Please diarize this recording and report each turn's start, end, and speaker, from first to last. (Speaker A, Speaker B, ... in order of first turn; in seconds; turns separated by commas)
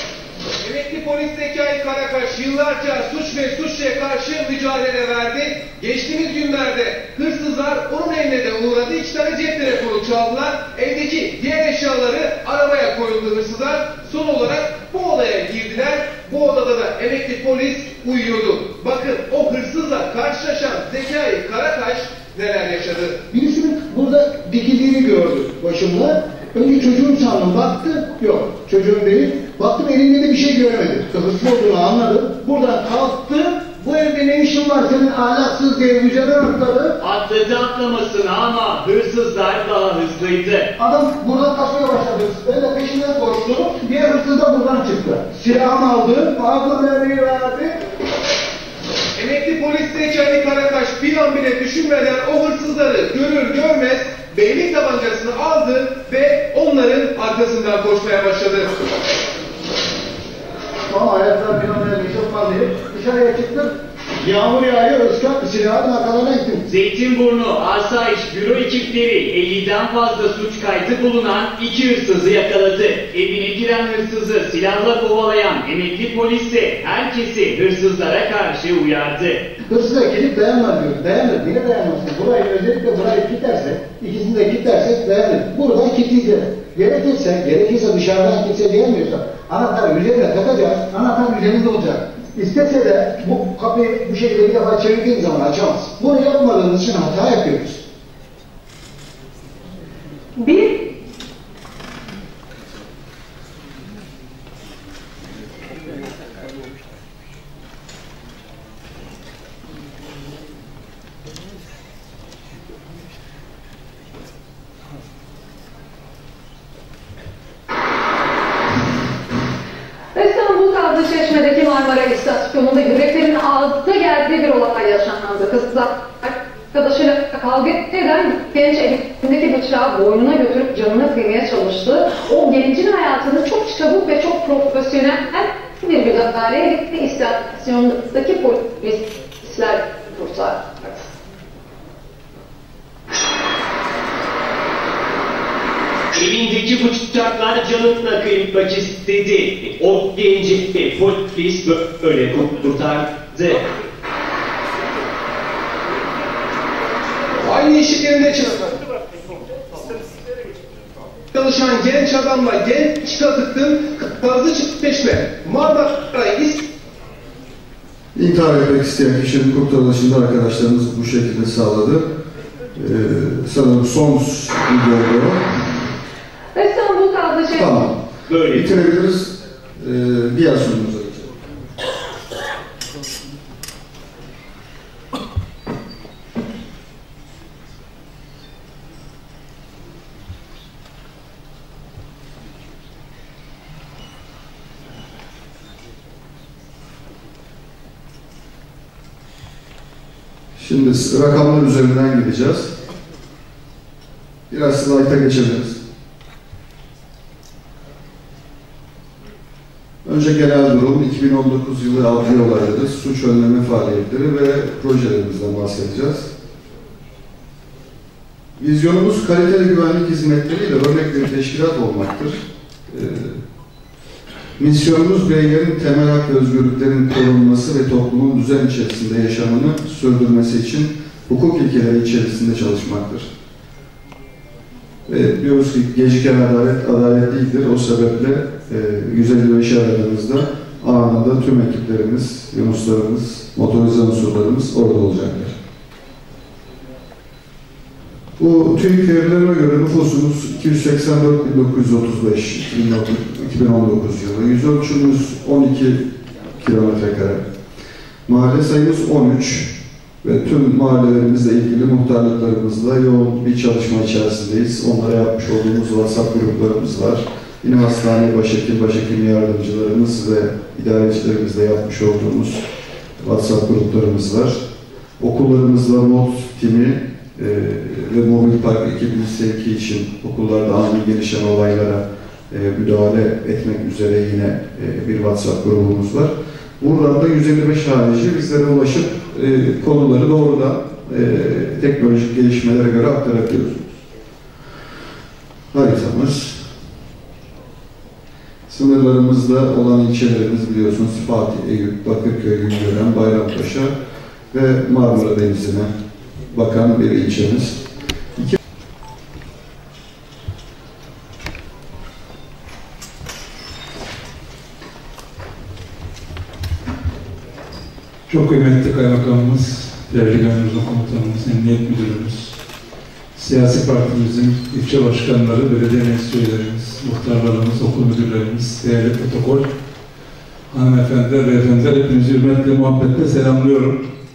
Speaker A: 0.6-23.2, Speaker B: 23.3-36.9, Speaker C: 37.0-40.7, Speaker B: 40.8-47.8, Speaker A: 49.1-58.7, Speaker B: 60.9-66.6, Speaker C: 66.7-79.4, Speaker B: 79.7-97.8, Speaker D: 100.4-100.7, Speaker D: 120.1-141.0, Speaker C: 146.1-153.6, Speaker A: 157.4-158.7, Speaker A: 161.3-166.6, Speaker E: 168.1-172.1, Speaker E: 172.7-175.4, Speaker D: 176.5-177.7, Speaker E: 177.5-178.0, Speaker C: 178.3-178.7, Speaker E: 178.5-181.3, Speaker E: 200.6-202.7, Speaker E: 204.5-205.8, Speaker E: 210.0-216.3, Speaker E: 218.6-223.4, Speaker E: 224.6-233.3, Speaker E: 235.1-245.5, Speaker E: 248.4-256.0, Speaker E: 256.6-257.4, Speaker E: 258.3-259.7, Speaker E: 260.2-272.6, Speaker E: 273.2-274.6, Speaker E: 275.2-293.9, Speaker E: 295.7-296.6, Speaker E: 298.7-303.9, Speaker E: 304.5-305.9, Speaker E: 306.5-307.8, Speaker F: 318.3-322.5, Speaker F: 323.3-329.7, Speaker F: 330.7-334.0